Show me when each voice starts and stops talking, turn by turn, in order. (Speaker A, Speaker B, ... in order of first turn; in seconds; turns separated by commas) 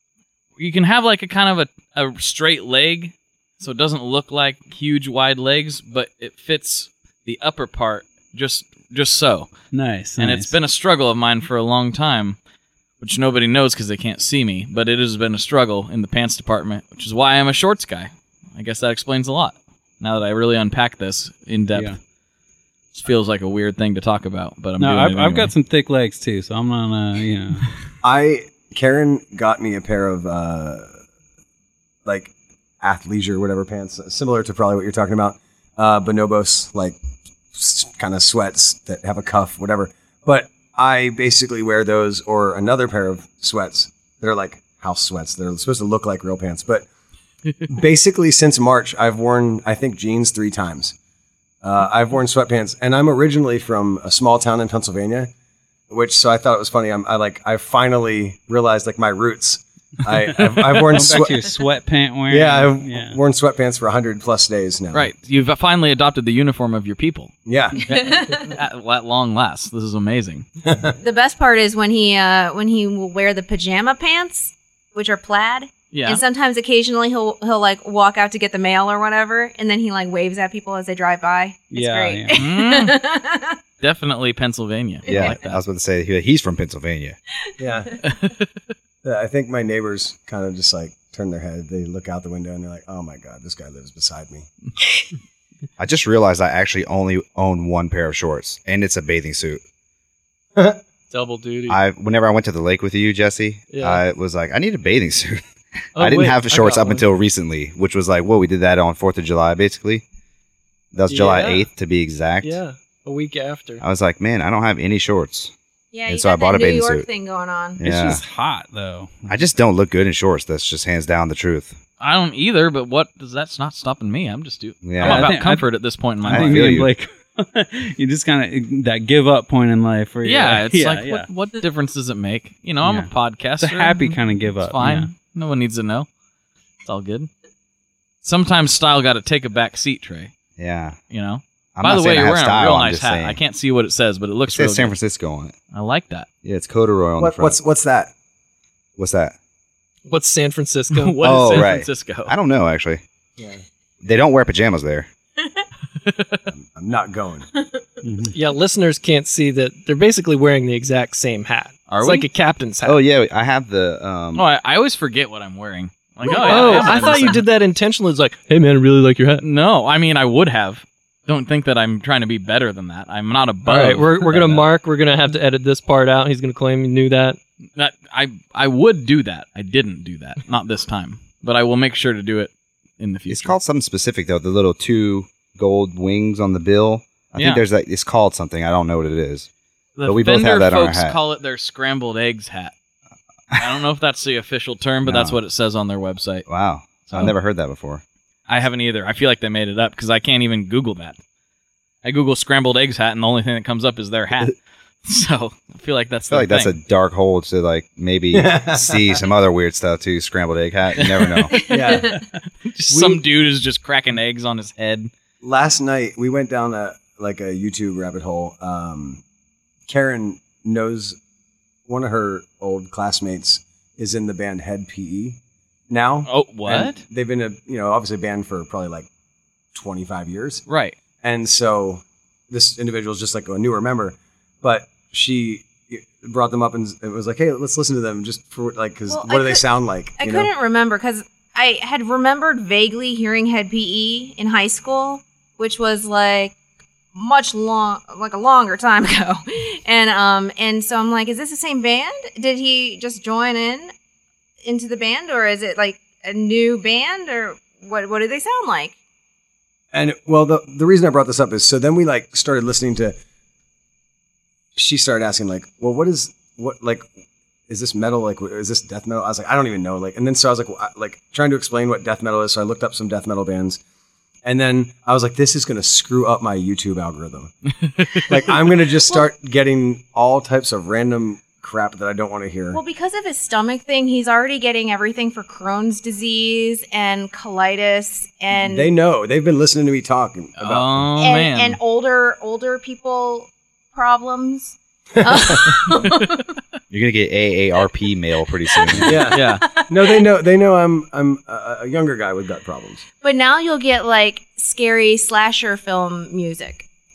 Speaker A: 0.6-9.7, Speaker B: 9.7-10.6, Speaker A: 10.2-12.4, Speaker A: 13.0-22.0, Speaker A: 22.9-25.5, Speaker B: 24.8-27.7, Speaker C: 28.0-31.0, Speaker C: 32.0-37.0, Speaker C: 37.5-46.9, Speaker C: 47.6-51.0, Speaker C: 51.6-55.3, Speaker C: 55.9-61.5, Speaker B: 60.6-63.2, Speaker C: 62.3-65.1, Speaker A: 64.9-67.3, Speaker C: 67.5-67.8, Speaker D: 67.9-68.6, Speaker A: 67.9-70.5, Speaker C: 70.7-71.0, Speaker D: 71.0-83.6, Speaker A: 75.9-76.2, Speaker B: 81.7-82.3, Speaker A: 82.3-83.0, Speaker A: 83.8-85.6, Speaker D: 85.0-85.4, Speaker E: 85.1-87.2, Speaker C: 87.6-87.9, Speaker A: 88.0-88.5, Speaker C: 89.0-94.5, Speaker E: 95.8-99.6, Speaker F: 101.1-101.8, Speaker E: 101.7-105.4, Speaker F: 103.7-104.0, Speaker F: 106.0-107.1, Speaker E: 106.0-110.0, Speaker E: 110.9-112.6, Speaker F: 111.1-111.7, Speaker F: 112.4-113.8, Speaker E: 113.8-115.5, Speaker D: 115.9-117.8, Speaker E: 116.1-117.1, Speaker E: 117.8-118.2, Speaker B: 117.8-119.5, Speaker E: 119.3-121.8, Speaker A: 122.0-126.8, Speaker E: 124.8-125.4, Speaker B: 125.0-131.3, Speaker E: 126.3-126.9, Speaker A: 130.2-136.1, Speaker B: 132.8-135.1, Speaker A: 136.8-137.3, Speaker A: 138.2-140.3, Speaker E: 140.6-141.0, Speaker A: 141.1-144.9, Speaker E: 141.8-143.4, Speaker E: 144.5-145.6, Speaker A: 145.7-146.3, Speaker E: 146.4-147.6, Speaker C: 147.2-148.1, Speaker E: 149.0-149.3, Speaker F: 150.1-151.7, Speaker A: 150.9-152.3, Speaker E: 151.2-153.0, Speaker C: 153.4-153.6, Speaker E: 154.0-155.1, Speaker A: 156.1-156.4, Speaker C: 156.5-157.5, Speaker B: 158.0-158.3, Speaker F: 158.3-163.0, Speaker A: 161.9-162.3, Speaker E: 162.8-164.4, Speaker A: 164.3-167.4, Speaker F: 166.2-169.4, Speaker D: 166.3-167.1, Speaker A: 169.4-174.6, Speaker F: 173.7-177.4, Speaker A: 177.8-183.6, Speaker E: 183.3-189.5, Speaker A: 187.4-187.6, Speaker A: 190.0-192.7, Speaker E: 190.0-191.2, Speaker A: 193.6-197.3, Speaker E: 195.1-195.4, Speaker E: 196.5-198.0, Speaker A: 198.5-201.2, Speaker A: 202.0-206.7, Speaker E: 206.3-211.5, Speaker C: 208.3-209.2, Speaker D: 211.5-212.2, Speaker C: 211.7-212.2, Speaker A: 212.7-215.1, Speaker C: 212.9-213.2, Speaker C: 215.4-219.2, Speaker C: 219.9-221.2, Speaker C: 221.9-225.4, Speaker C: 225.9-229.1, Speaker A: 226.3-227.0, Speaker C: 229.7-230.6, Speaker A: 230.7-231.0, Speaker C: 231.2-240.5, Speaker D: 239.1-246.6, Speaker D: 247.1-253.9, Speaker D: 254.6-259.0, Speaker C: 259.9-263.2, Speaker C: 264.8-267.1, Speaker C: 267.7-273.8, Speaker C: 274.4-277.5, Speaker C: 278.3-282.8, Speaker D: 282.7-288.9, Speaker C: 288.5-291.1, Speaker A: 290.6-291.8, Speaker D: 291.2-296.5, Speaker C: 295.2-295.7, Speaker E: 296.9-299.2, Speaker D: 298.7-299.2, Speaker C: 299.1-303.1, Speaker A: 299.3-299.6, Speaker D: 299.7-300.2, Speaker D: 303.2-306.9